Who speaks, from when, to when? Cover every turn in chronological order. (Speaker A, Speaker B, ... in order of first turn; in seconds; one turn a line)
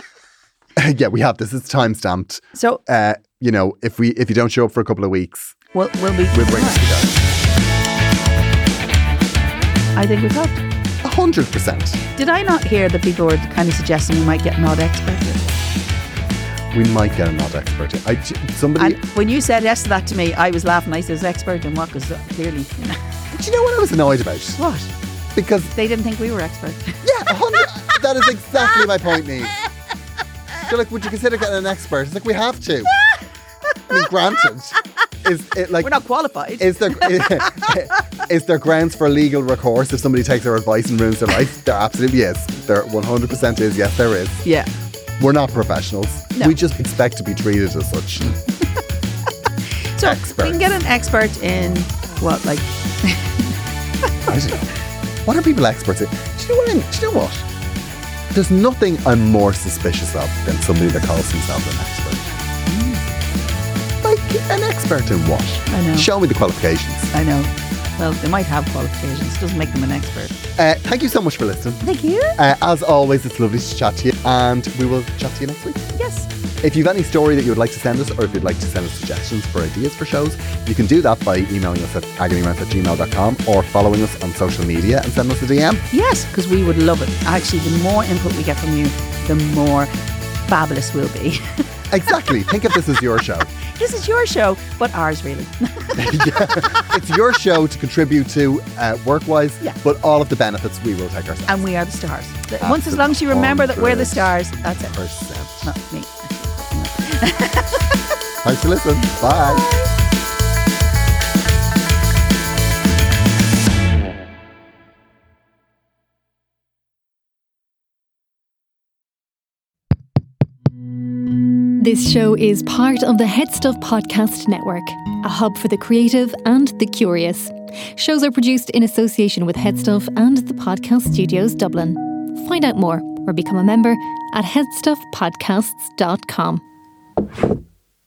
Speaker A: 0.8-5.6
Speaker B: 2.5-2.8
Speaker B: 5.7-6.8
Speaker A: 6.3-7.2
Speaker B: 9.9-10.6
Speaker A: 11.0-12.0
Speaker B: 12.2-15.5
Speaker A: 16.7-19.0
Speaker B: 18.8-23.0
Speaker A: 23.3-24.6
Speaker B: 24.6-24.9
Speaker A: 25.3-25.7
Speaker B: 25.7-27.0
Speaker A: 27.0-29.6
Speaker A: 30.5-32.9
Speaker A: 33.9-35.9
Speaker B: 35.8-37.8
Speaker A: 36.6-44.4
Speaker B: 44.4-44.7
Speaker A: 45.2-48.4
Speaker B: 50.0-53.5
Speaker A: 50.0-50.6
Speaker A: 54.2-54.7
Speaker A: 55.2-57.5
Speaker A: 58.3-62.3
Speaker B: 62.7-63.0
Speaker A: 64.0-67.1
Speaker B: 65.7-66.1
Speaker B: 67.1-70.3
Speaker A: 70.6-71.8
Speaker B: 71.8-72.4
Speaker A: 72.3-75.9
Speaker B: 76.0-76.3
Speaker A: 76.6-85.8
Speaker B: 85.9-89.9
Speaker B: 90.5-91.6
Speaker A: 91.9-93.5
Speaker B: 92.2-92.5
Speaker B: 93.7-96.9
Speaker A: 95.9-101.6
Speaker B: 101.5-104.9
Speaker A: 102.6-104.2
Speaker A: 104.8-105.7
Speaker B: 105.6-107.9
Speaker A: 108.4-109.7
Speaker B: 109.2-109.9
Speaker C: 121.8-136.6